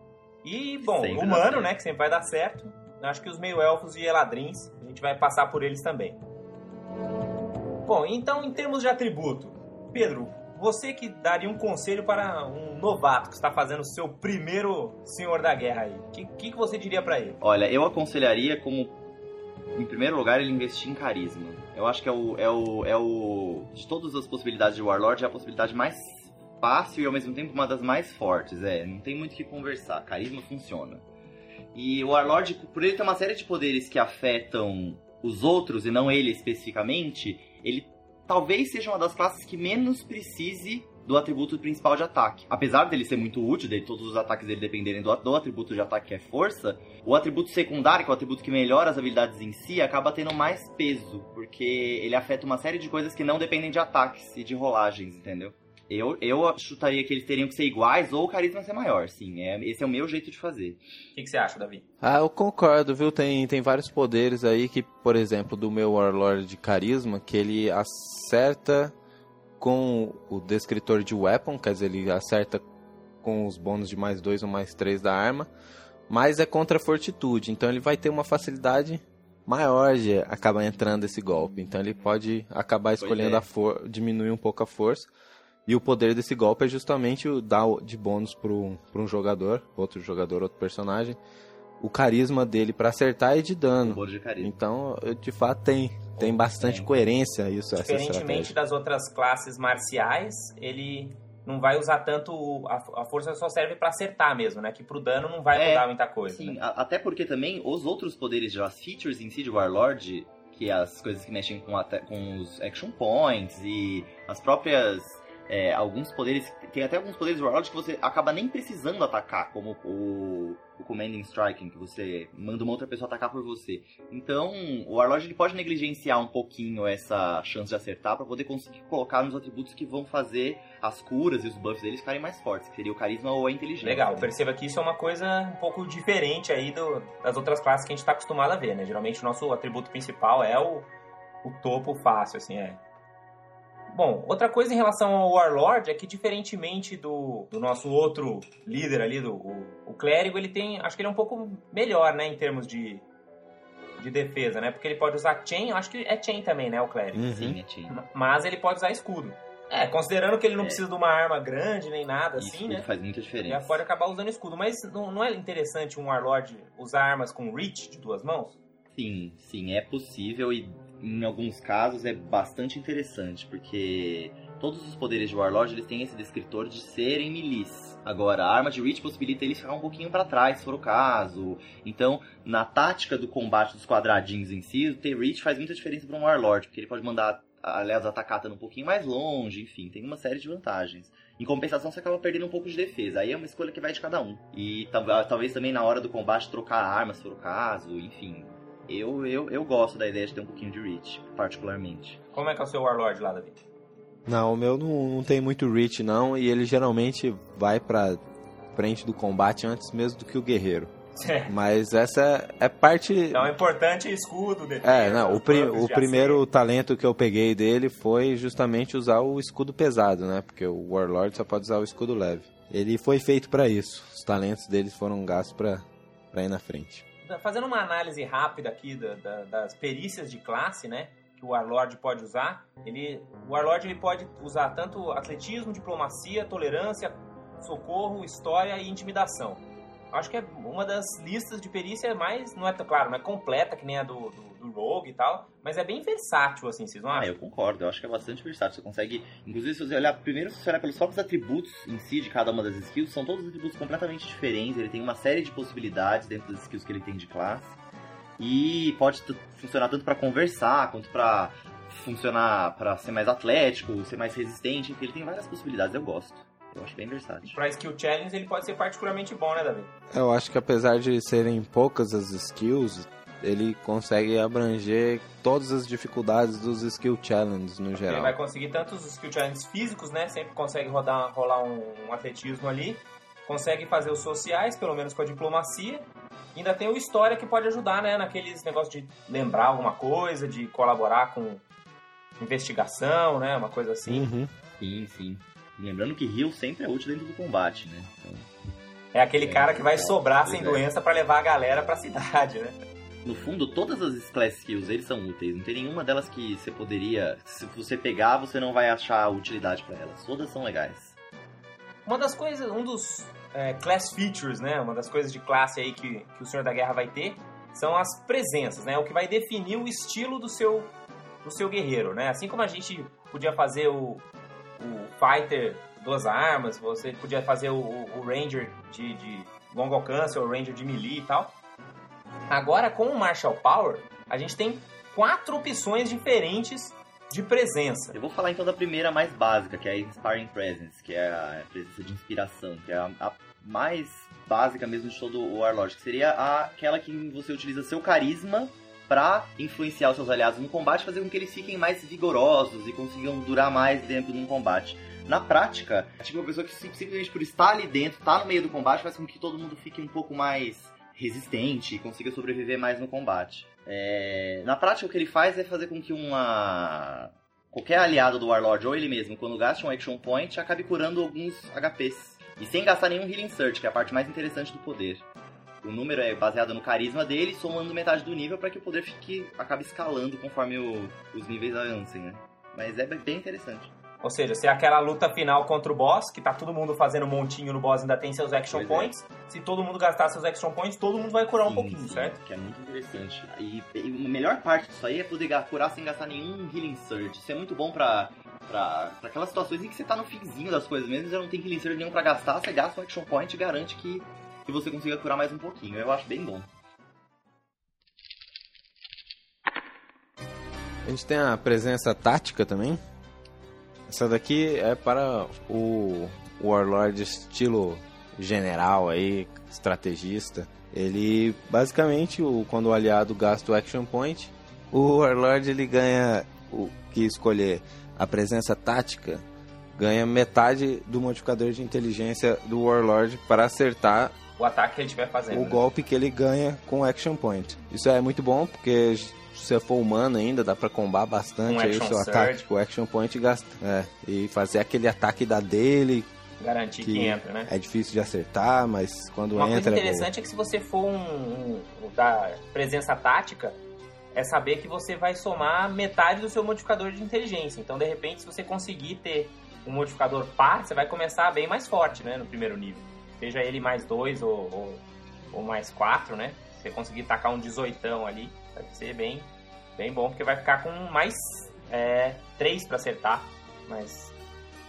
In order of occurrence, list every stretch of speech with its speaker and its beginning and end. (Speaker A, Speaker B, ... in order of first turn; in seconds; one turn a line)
Speaker A: 0.4-6.2
Speaker B: 0.8-1.7
Speaker A: 7.8-17.4
Speaker B: 17.4-19.0
Speaker B: 19.8-31.0
Speaker B: 31.7-60.8
Speaker A: 61.1-61.9
Speaker C: 62.0-68.9
Speaker C: 69.6-72.6
Speaker C: 73.2-75.5
Speaker C: 76.1-85.1
Speaker B: 83.0-83.5
Speaker C: 85.7-91.2
Speaker C: 91.8-98.5
Speaker B: 93.8-94.5
Speaker B: 96.2-96.9
Speaker A: 97.8-106.6
Speaker B: 105.5-134.3
Speaker A: 133.8-140.9
Speaker A: 141.4-142.8
Speaker A: 143.9-153.0
Speaker A: 154.0-157.2
Speaker C: 157.1-157.6
Speaker B: 157.2-158.0
Speaker A: 157.9-162.9
Speaker B: 162.4-163.8
Speaker A: 163.5-168.6
Speaker B: 168.9-202.2
Speaker A: 202.3-203.6
Speaker C: 204.3-208.2
Speaker C: 208.7-210.9
Speaker A: 211.2-211.5
Speaker C: 211.5-213.6
Speaker A: 213.3-216.4
Speaker C: 214.8-227.0
Speaker A: 227.2-247.3
Speaker B: 247.1-257.8
Speaker B: 258.4-267.6
Speaker A: 267.4-269.9
Speaker C: 270.1-278.4
Speaker A: 278.0-291.6
Speaker A: 292.4-294.3
Speaker C: 294.1-294.5
Speaker B: 294.8-298.5
Speaker A: 299.1-302.8
Speaker B: 299.4-300.9
Speaker B: 303.2-311.2
Speaker A: 312.1-320.9
Speaker A: 321.4-324.2
Speaker A: 324.8-331.5
Speaker A: 332.5-338.2
Speaker B: 338.1-375.2
Speaker B: 375.8-383.9
Speaker A: 384.2-392.4
Speaker B: 388.7-389.1
Speaker B: 391.7-406.7
Speaker C: 411.1-413.0
Speaker C: 414.1-429.4
Speaker C: 429.9-434.4
Speaker A: 434.6-435.8
Speaker C: 435.5-446.3
Speaker A: 441.7-442.7
Speaker A: 446.6-447.7
Speaker C: 447.0-450.3
Speaker A: 449.6-453.8
Speaker A: 454.3-465.0
Speaker A: 465.5-474.3